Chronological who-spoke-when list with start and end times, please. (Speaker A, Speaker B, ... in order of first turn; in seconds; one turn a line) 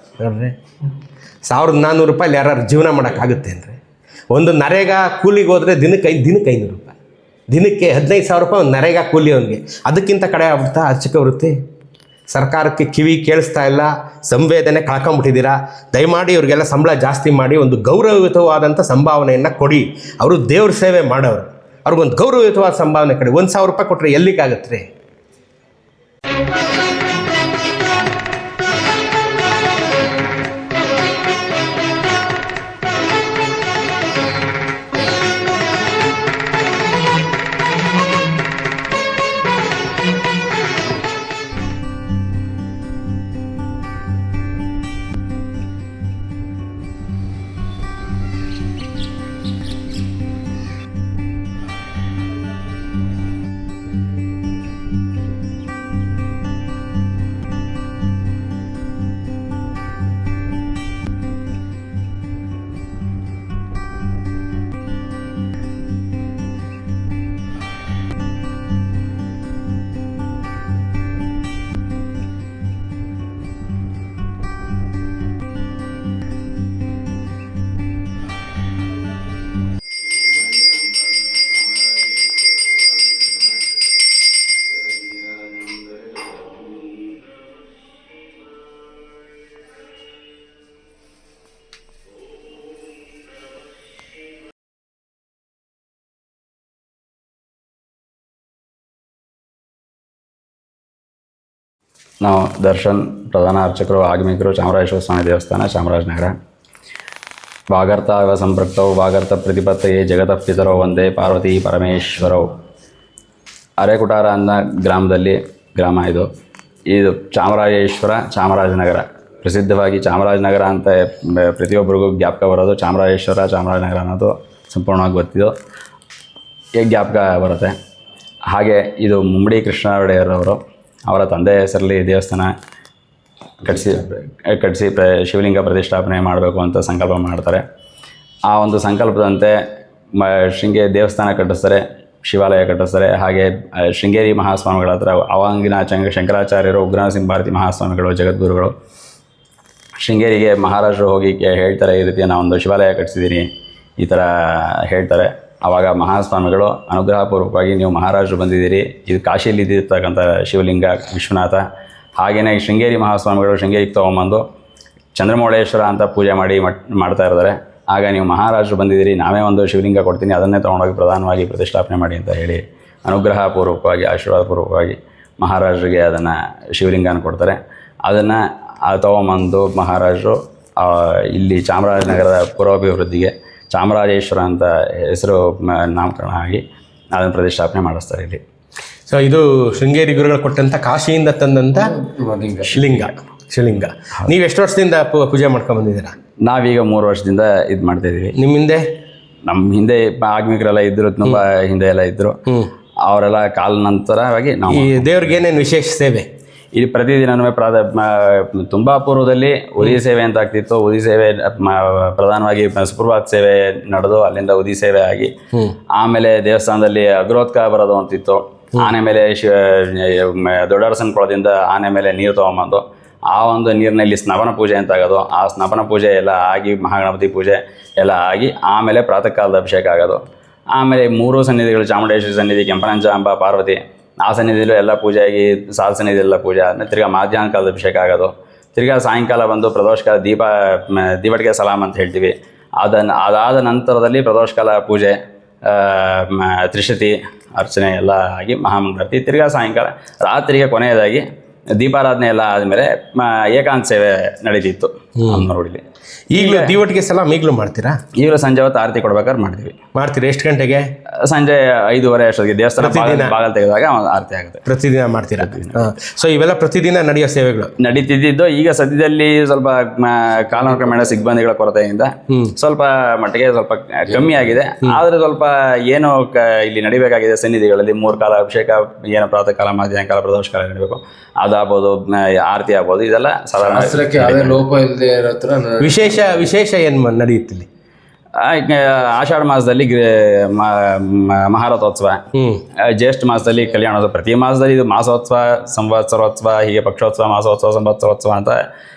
Speaker A: 0.2-0.6
Speaker A: 1.5-3.8
Speaker A: 4.3-7.0
Speaker A: 7.5-11.6
Speaker A: 12.3-24.9
Speaker B: 80.1-83.6
Speaker B: 84.7-87.2
Speaker B: 102.2-106.4
Speaker B: 107.7-112.5
Speaker B: 113.8-116.3
Speaker B: 116.9-125.5
Speaker B: 126.8-127.7
Speaker B: 128.5-132.5
Speaker B: 133.6-137.6
Speaker B: 138.5-139.6
Speaker B: 140.2-148.7
Speaker B: 150.0-161.7
Speaker B: 162.2-164.4
Speaker B: 165.2-186.6
Speaker B: 187.2-188.4
Speaker A: 189.1-192.0
Speaker C: 191.9-192.8
Speaker B: 192.7-193.1
Speaker A: 192.7-196.1
Speaker B: 196.4-198.3
Speaker A: 198.4-198.9
Speaker B: 199.5-202.4
Speaker B: 203.1-205.3
Speaker A: 204.7-206.3
Speaker B: 206.8-215.3
Speaker B: 215.9-230.2
Speaker B: 230.8-255.8
Speaker A: 255.2-255.5
Speaker A: 256.3-258.0
Speaker B: 256.4-256.8
Speaker B: 258.2-259.8
Speaker A: 259.9-260.9
Speaker B: 261.2-264.6
Speaker A: 262.8-263.4
Speaker A: 264.7-267.7
Speaker B: 265.4-265.9
Speaker B: 267.8-284.6
Speaker A: 272.3-272.5
Speaker C: 283.6-286.4
Speaker A: 285.8-287.7
Speaker B: 288.4-292.2
Speaker A: 292.4-292.6
Speaker B: 292.8-298.6